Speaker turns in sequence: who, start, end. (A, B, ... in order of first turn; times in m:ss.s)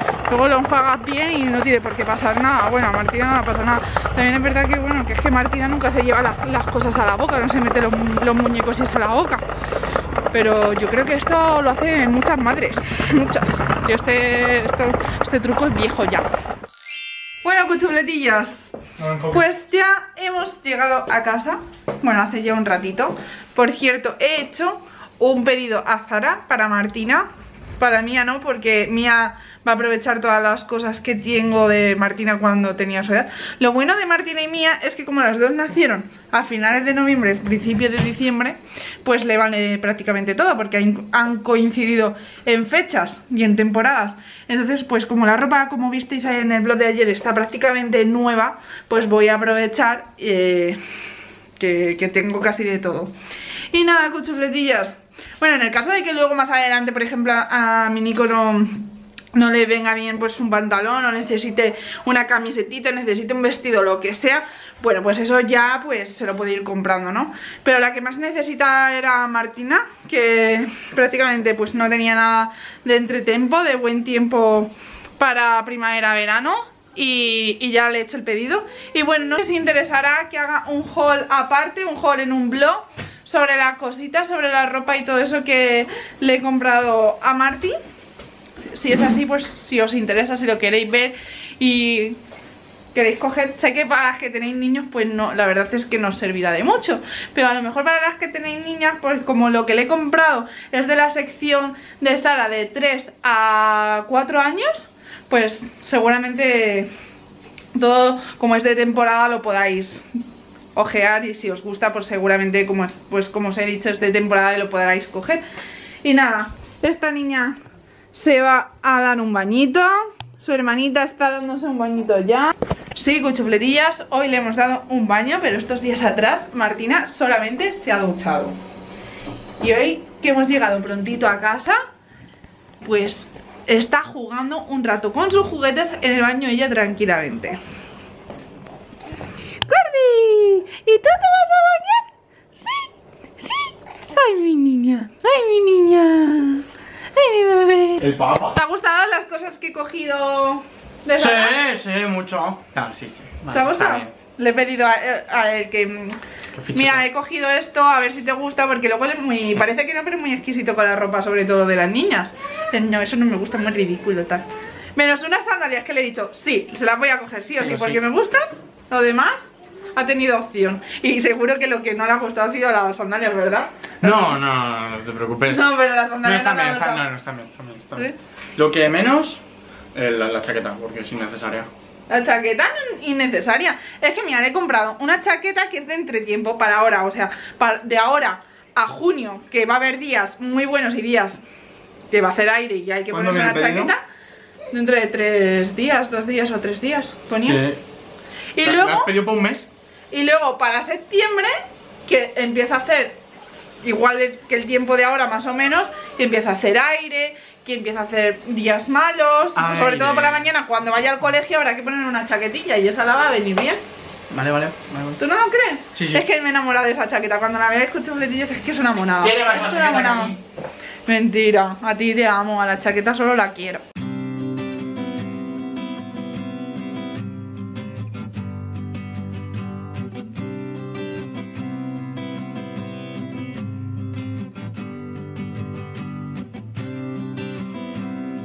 0:00.3-0:09.4 A
0:10.3-0:16.3 A
0:17.4-0:18.7 A
0:19.0-0:19.4 B
0:19.3-0:27.3 A
0:27.8-0:50.8 A
0:51.6-0:53.1 A
0:53.7-1:27.8 A
1:28.7-1:32.2 A
1:32.9-1:46.9 A
1:47.7-1:50.1 A
1:50.7-1:55.4 A
1:56.0-1:57.6 A
1:58.1-2:08.6 A
2:09.6-2:11.8 A
2:12.8-2:17.6 A
2:19.6-2:22.9 A
2:23.4-2:31.6 A
2:28.0-2:28.6 B
2:31.2-2:34.1 B
2:33.5-2:36.2 A
2:36.5-2:37.0 B
2:36.7-2:54.4 A
2:47.6-2:48.0 B
2:54.0-2:59.4 B
2:55.5-2:57.1 A
2:59.9-3:01.7 B
3:02.1-3:11.4 A
3:12.1-3:14.0 A
3:13.1-3:13.9 B
3:14.7-3:17.6 A
3:17.4-3:17.8 B
3:18.5-3:19.1 A
3:18.6-3:19.7 B
3:20.1-3:21.5 A
3:22.0-3:23.2 A
3:23.8-3:33.8 A
3:29.6-3:30.5 B
3:34.3-3:35.2 B
3:35.2-3:40.4 A
3:35.9-3:36.2 B
3:39.2-3:40.4 B
3:41.0-3:43.8 A